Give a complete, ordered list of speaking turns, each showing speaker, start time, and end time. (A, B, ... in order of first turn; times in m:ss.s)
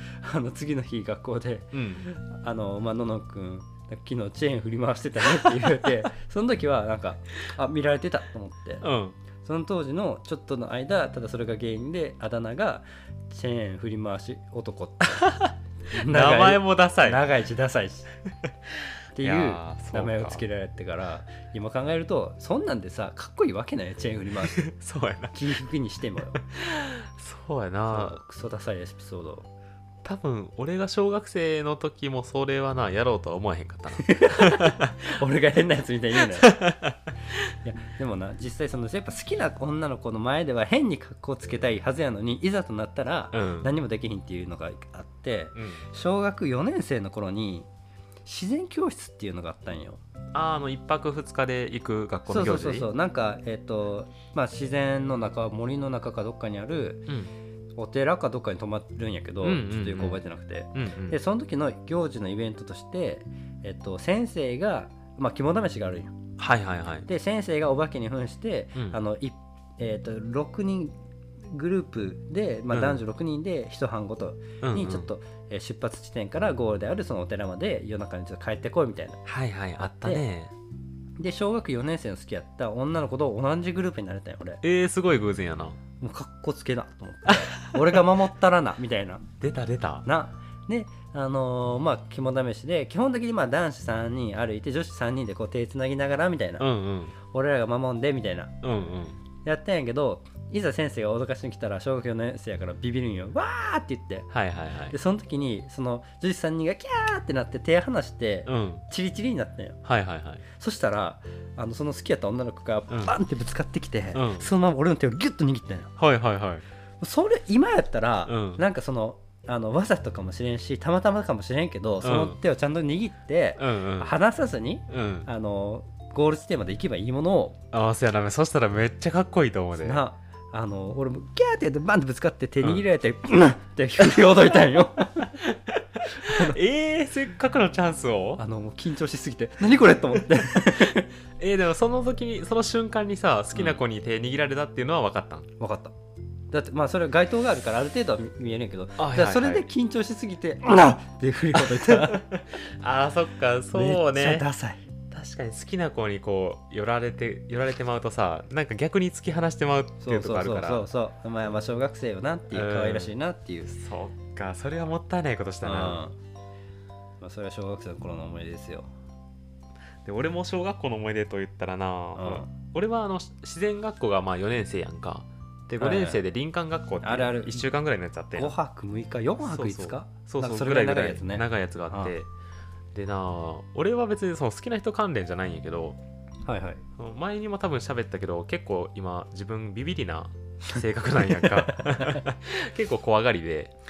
0:00.2-0:08.9 A
0:01.7-0:02.1 B
0:08.8-0:09.2 B
0:09.4-0:15.3 A
0:15.2-0:17.3 B
0:15.9-0:18.2 A
0:19.2-0:24.6 A
0:19.2-0:20.4 B
0:24.4-0:25.4 B
0:25.3-0:26.4 A
0:26.4-0:28.2 B
0:27.9-0:29.5 A
0:30.0-0:35.2 B
0:34.0-0:36.6 A
0:36.2-0:37.1 B
0:37.6-0:47.7 A
0:43.3-0:43.7 B
0:45.6-0:45.8 B
0:48.3-0:50.0 A
0:50.3-0:52.9 B
0:52.3-0:57.1 A
0:57.8-1:06.2 A
0:59.4-1:00.2 B
1:00.7-1:01.2 B
1:06.4-1:07.1 B
1:07.1-1:19.2 A
1:08.8-1:09.0 B
1:12.7-1:13.0 B
1:14.6-1:15.1 B
1:19.2-1:20.5 B
1:20.0-1:20.2 A
1:21.2-1:24.6 A
1:24.6-1:25.8 B
1:26.0-1:29.3 A
1:27.3-1:28.0 B
1:29.4-1:30.1 B
1:30.1-1:36.7 A
1:36.6-1:37.2 B
1:37.3-1:38.6 A
1:38.6-1:39.2 B
1:39.4-1:44.3 A
1:44.3-1:45.0 B
1:44.9-1:49.8 A
1:48.5-1:48.8 B
1:49.8-1:50.4 B
1:50.5-1:55.9 A
1:52.9-1:53.1 B
1:54.1-1:54.5 B
1:56.0-1:56.6 B
1:57.0-2:07.6 A
1:58.3-1:58.6 B
2:02.0-2:02.4 B
2:03.6-2:04.2 B
2:04.9-2:05.3 B
2:07.7-2:10.0 B
2:09.8-2:15.4 A
2:14.1-2:14.6 B
2:15.2-2:18.4 B
2:16.2-2:16.6 A
2:18.4-2:21.1 A
2:20.8-2:25.5 B
2:23.5-2:23.8 A
2:25.6-2:25.9 A
2:26.5-2:32.3 A
2:29.0-2:29.7 B
2:31.6-2:34.5 B
2:33.7-2:34.8 A
2:35.1-2:40.9 B
2:40.0-2:43.7 A
2:42.5-2:43.1 B
2:43.7-2:46.0 B
2:45.6-2:46.2 A
2:47.2-2:48.9 A
2:50.0-2:58.6 B
2:52.2-2:52.5 A
2:55.8-2:56.2 A
2:57.0-2:57.7 A
2:58.4-3:02.1 A
2:59.4-3:02.3 B
3:02.9-3:06.0 B
3:06.5-3:06.8 A
3:07.0-3:13.8 B
3:11.3-3:12.2 A